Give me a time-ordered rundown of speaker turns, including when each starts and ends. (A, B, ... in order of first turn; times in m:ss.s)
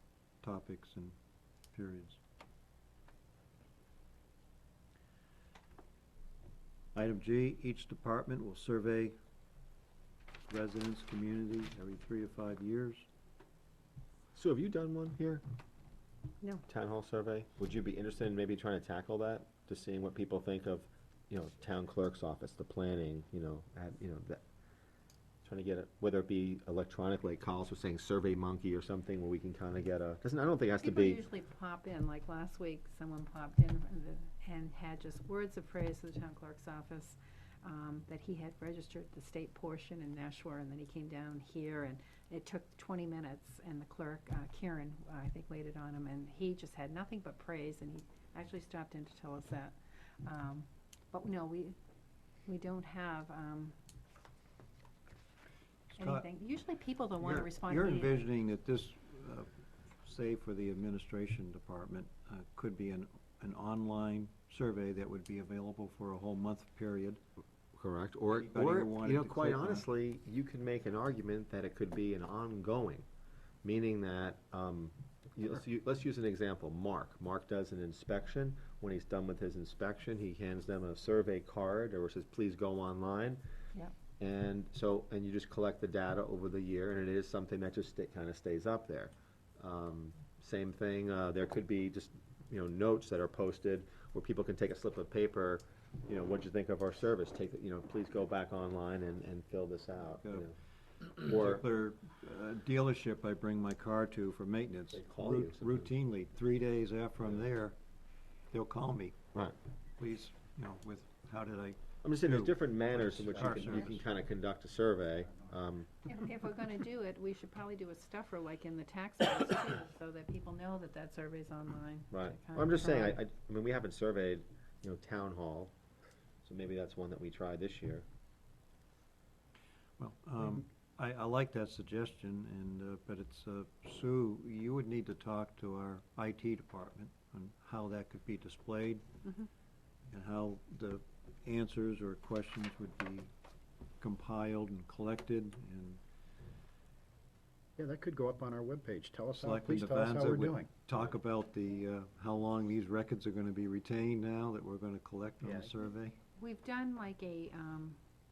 0:00.4-0:01.2 A
0:01.7-0:02.2 A
0:07.0-0:09.2 A
0:10.5-0:13.1 A
0:14.4-0:15.4 B
0:16.7-0:24.4 B
0:25.4-0:31.2 B
0:30.8-0:51.7 C
0:52.5-0:53.7 C
0:56.0-0:56.2 A
0:56.0-0:58.3 C
0:57.2-0:59.5 A
1:00.0-1:07.2 A
1:07.7-1:13.0 B
1:08.3-1:09.8 A
1:13.6-1:23.4 B
1:24.2-1:40.6 B
1:40.2-1:40.5 A
1:41.2-1:41.6 B
1:41.2-1:47.8 A
1:44.9-1:45.9 B
1:48.5-1:49.2 A
1:50.0-1:54.0 A
1:52.0-1:55.9 B
1:56.1-2:03.2 C
2:02.1-2:05.7 B
2:06.4-2:08.0 B
2:10.0-2:19.1 A
2:20.1-2:23.3 A
2:24.0-2:26.0 A
2:27.8-2:30.7 D
2:29.4-2:36.2 A
2:36.4-2:38.0 C